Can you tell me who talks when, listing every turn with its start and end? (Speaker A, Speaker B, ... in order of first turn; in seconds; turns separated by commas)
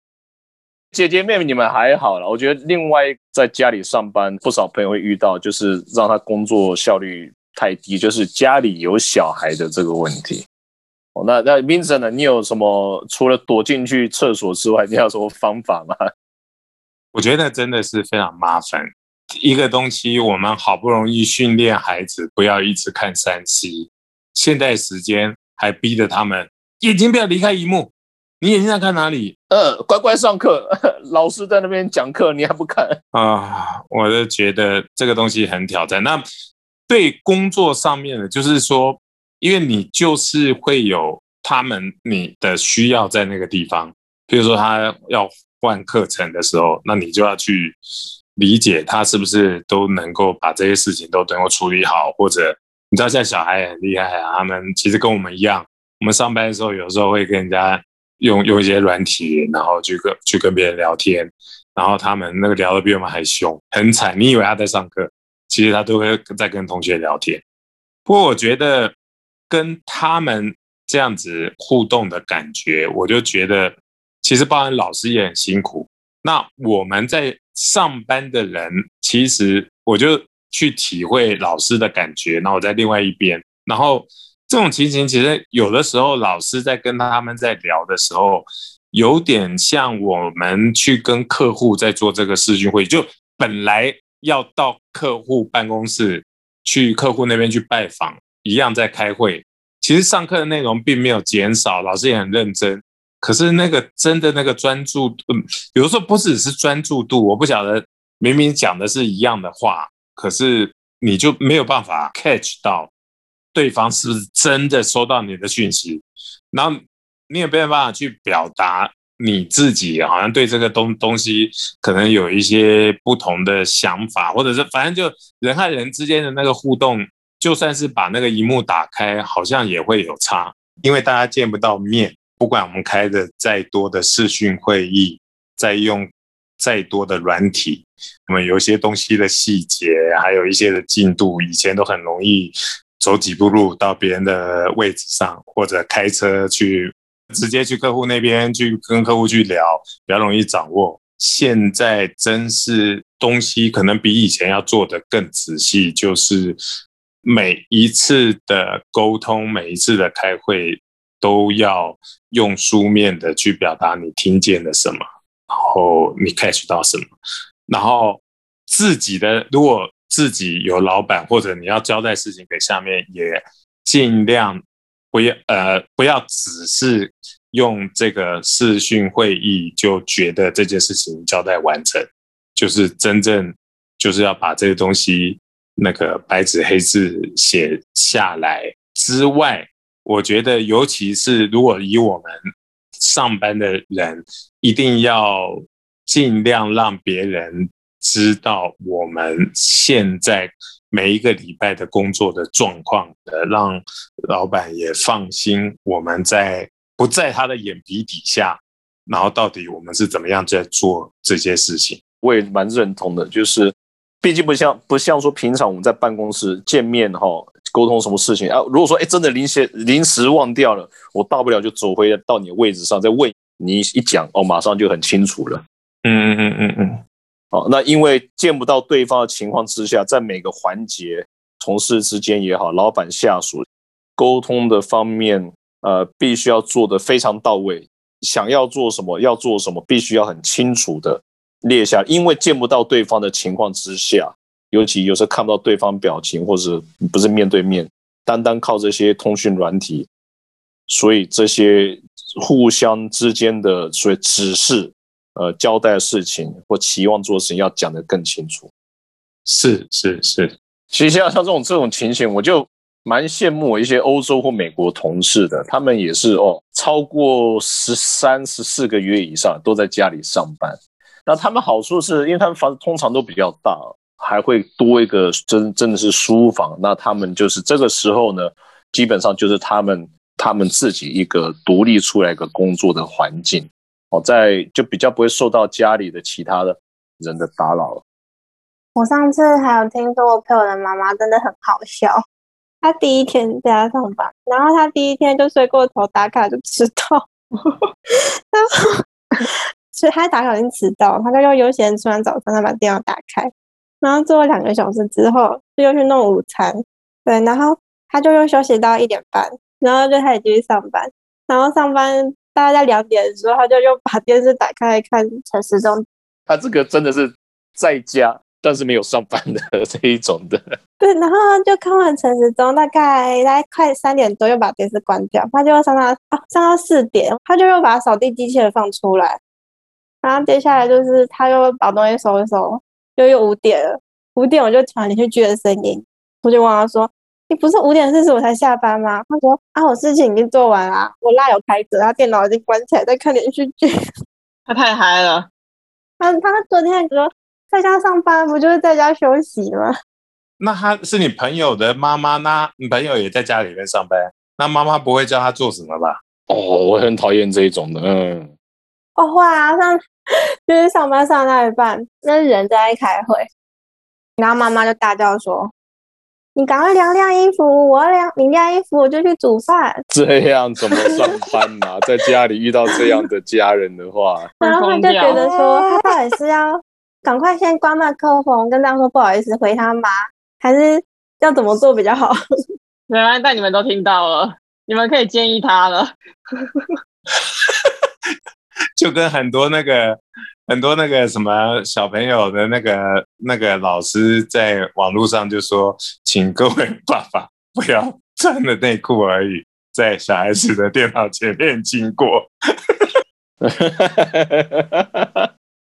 Speaker A: 0.9-10.5, Speaker A: 11.2-16.0, Speaker B: 17.1-29.4, Speaker A: 29.5-33.0, Speaker B: 33.1-36.2, Speaker B: 36.9-47.8, Speaker B: 48.4-67.4, Speaker B: 68.1-69.0, Speaker B: 69.5-105.2, Speaker B: 105.7-112.9, Speaker B: 113.5-156.6, Speaker B: 157.2-167.1, Speaker B: 167.7-192.4, Speaker B: 193.0-195.5, Speaker B: 196.1-212.0, Speaker A: 212.2-225.6, Speaker B: 226.1-227.0, Speaker A: 227.5-233.7, Speaker A: 234.2-250.1, Speaker A: 250.9-258.7, Speaker B: 259.5-260.5, Speaker A: 260.9-288.0, Speaker C: 288.9-292.2, Speaker C: 292.8-297.2, Speaker C: 299.4-303.5, Speaker C: 304.0-316.0, Speaker A: 316.5-320.6, Speaker C: 321.0-329.4, Speaker C: 330.2-343.9, Speaker D: 344.7-345.5, Speaker C: 346.2-349.9, Speaker B: 350.6-356.2, Speaker A: 356.5-358.5, Speaker C: 359.2-360.0, Speaker C: 360.7-363.5, Speaker C: 364.4-365.7, Speaker C: 366.6-370.0, Speaker A: 370.1-374.5, Speaker D: 374.6-375.9, Speaker C: 374.6-382.4, Speaker D: 383.1-386.1, Speaker B: 387.4-388.3, Speaker B: 389.0-403.1, Speaker A: 403.6-405.4